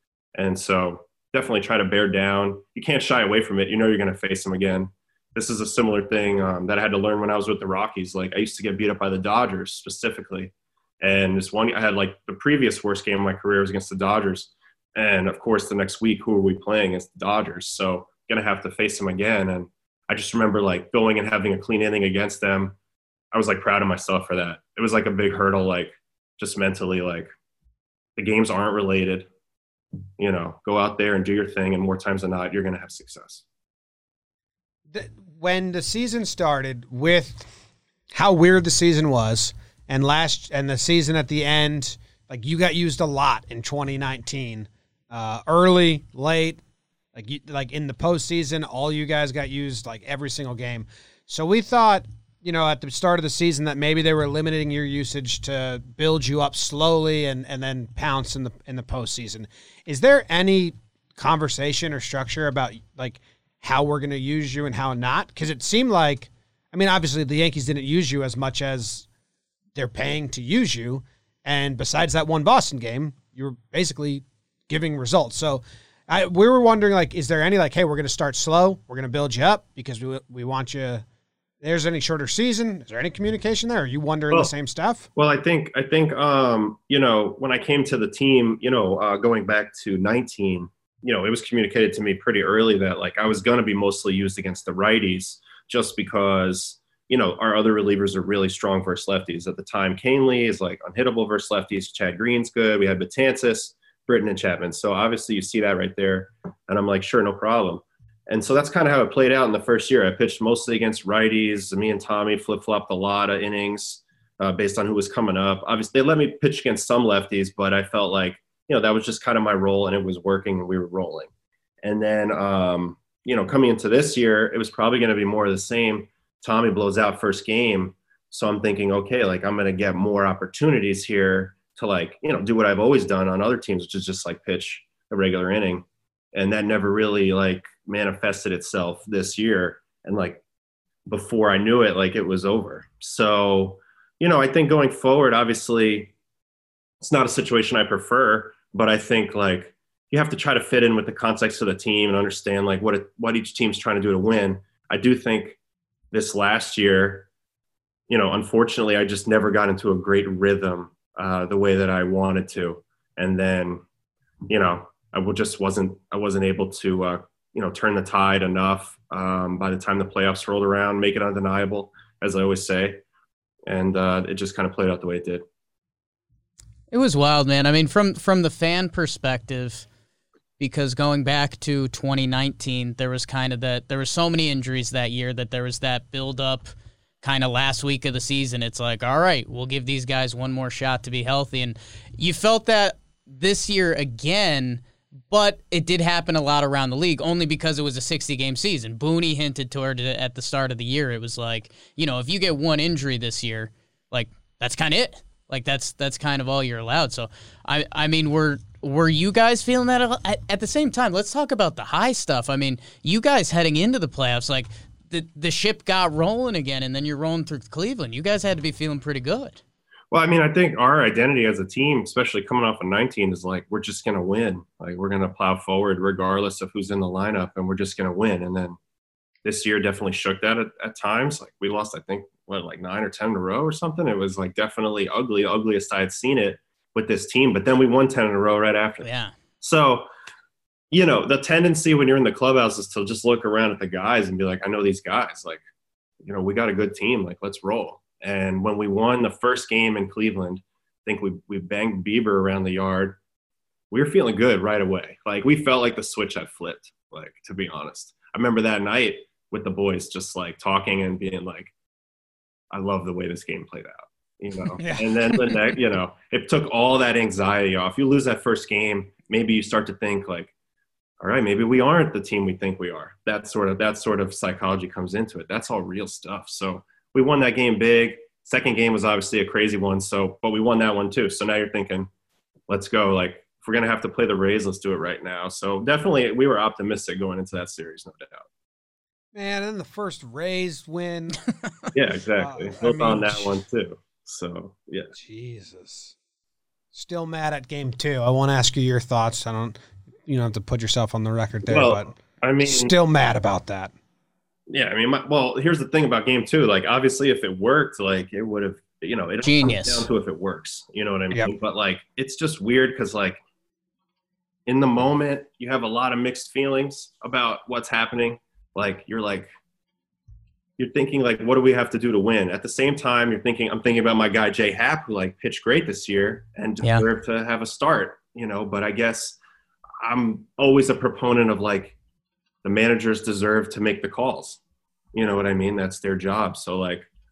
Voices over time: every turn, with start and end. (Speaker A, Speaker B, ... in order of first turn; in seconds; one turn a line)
Speaker A: 0.3-22.8
Speaker A: 23.3-27.3
Speaker A: 28.2-29.3
Speaker A: 30.2-33.4
Speaker B: 34.9-37.5
Speaker B: 38.1-46.6
Speaker B: 47.1-69.0
Speaker B: 69.8-81.0
Speaker B: 81.6-85.1
Speaker A: 85.2-121.3
Speaker A: 121.8-140.4
Speaker A: 141.1-146.1
Speaker A: 147.0-155.6
Speaker A: 156.1-157.3
Speaker A: 158.1-163.8
Speaker A: 164.5-173.0
Speaker A: 173.7-175.4
Speaker C: 176.9-179.8
Speaker C: 180.6-186.7
Speaker C: 187.2-219.6
Speaker A: 220.1-228.8
Speaker A: 229.4-239.1
Speaker C: 239.0-239.3
Speaker A: 239.6-240.1
Speaker A: 240.9-245.6
Speaker A: 246.2-253.2
Speaker A: 253.9-261.7
Speaker A: 262.7-270.5
Speaker B: 264.8-265.5
Speaker A: 271.2-282.1
Speaker A: 282.7-288.4
Speaker B: 289.3-291.4
Speaker A: 291.9-295.1
Speaker B: 292.4-293.6
Speaker B: 295.1-296.1
Speaker B: 296.9-303.9
Speaker A: 301.7-302.9
Speaker A: 304.7-313.4
Speaker C: 309.4-310.1
Speaker A: 314.6-319.5
Speaker A: 320.8-329.4
Speaker A: 330.0-331.9
Speaker A: 332.6-334.6
Speaker A: 335.1-337.1